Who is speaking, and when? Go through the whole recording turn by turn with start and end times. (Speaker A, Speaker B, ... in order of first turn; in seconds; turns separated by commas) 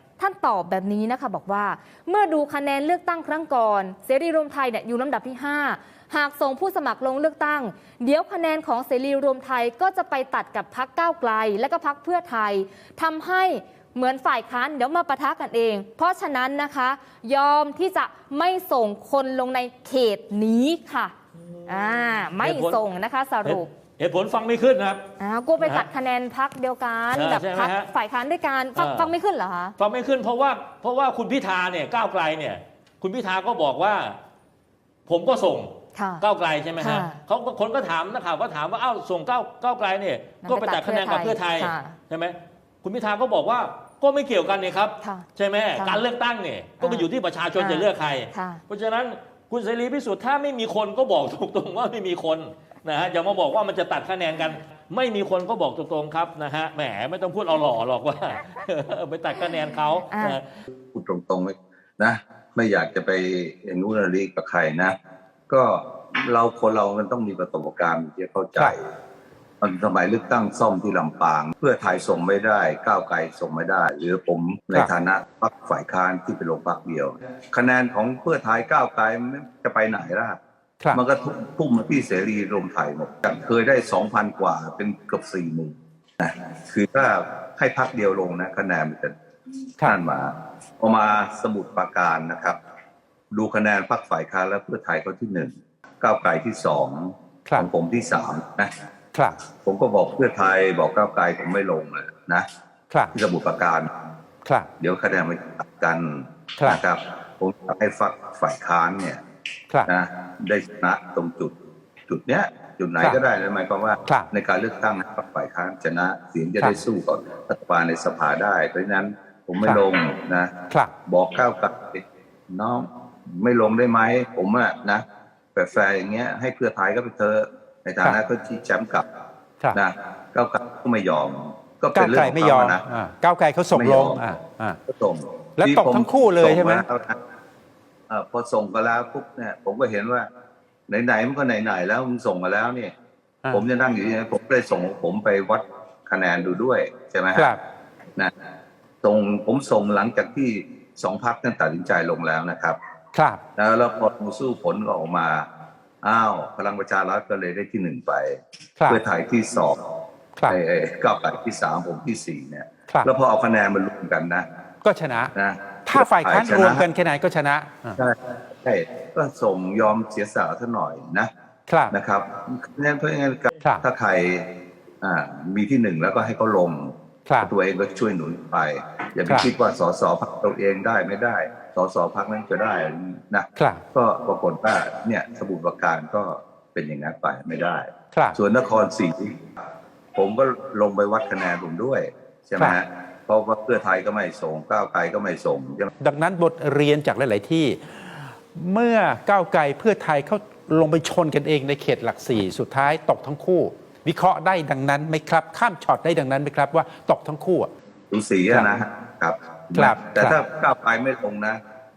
Speaker A: 0.2-21.1, Speaker B: 21.4-22.8, Speaker A: 21.7-23.7, Speaker B: 23.4-25.0, Speaker A: 25.2-29.8, Speaker B: 25.6-25.9, Speaker B: 27.1-27.9, Speaker B: 28.8-29.1, Speaker B: 29.8-34.2, Speaker B: 35.1-60.5, Speaker A: 36.0-36.2, Speaker A: 36.8-37.2, Speaker A: 40.4-42.0, Speaker A: 45.0-46.0, Speaker A: 46.8-48.6, Speaker A: 60.1-60.4, Speaker C: 60.9-65.0, Speaker C: 65.5-68.9, Speaker C: 69.6-80.4, Speaker C: 80.9-89.1, Speaker C: 89.8-92.6, Speaker C: 93.3-98.7, Speaker C: 99.6-102.5, Speaker D: 102.9-103.2, Speaker C: 103.1-103.9, Speaker C: 104.8-109.2, Speaker C: 109.9-111.5, Speaker C: 112.1-120.5, Speaker C: 121.1-129.1, Speaker C: 129.7-132.9, Speaker D: 131.9-134.8, Speaker C: 133.7-134.2, Speaker C: 134.9-137.2, Speaker D: 135.6-136.8, Speaker C: 138.1-140.3, Speaker C: 140.9-142.9, Speaker C: 143.5-147.5, Speaker D: 147.3-147.6, Speaker C: 149.0-152.8, Speaker D: 153.1-153.4, Speaker C: 153.6-155.5, Speaker C: 156.0-159.8, Speaker C: 160.5-164.5, Speaker D: 164.8-165.3, Speaker C: 165.3-166.8, Speaker D: 165.9-168.0, Speaker C: 168.0-171.3, Speaker D: 171.7-171.9, Speaker C: 171.9-174.5, Speaker C: 175.0-189.4, Speaker D: 177.3-177.5, Speaker D: 183.6-183.8, Speaker C: 190.2-195.9, Speaker D: 196.0-207.7, Speaker C: 208.1-211.6, Speaker D: 209.8-210.4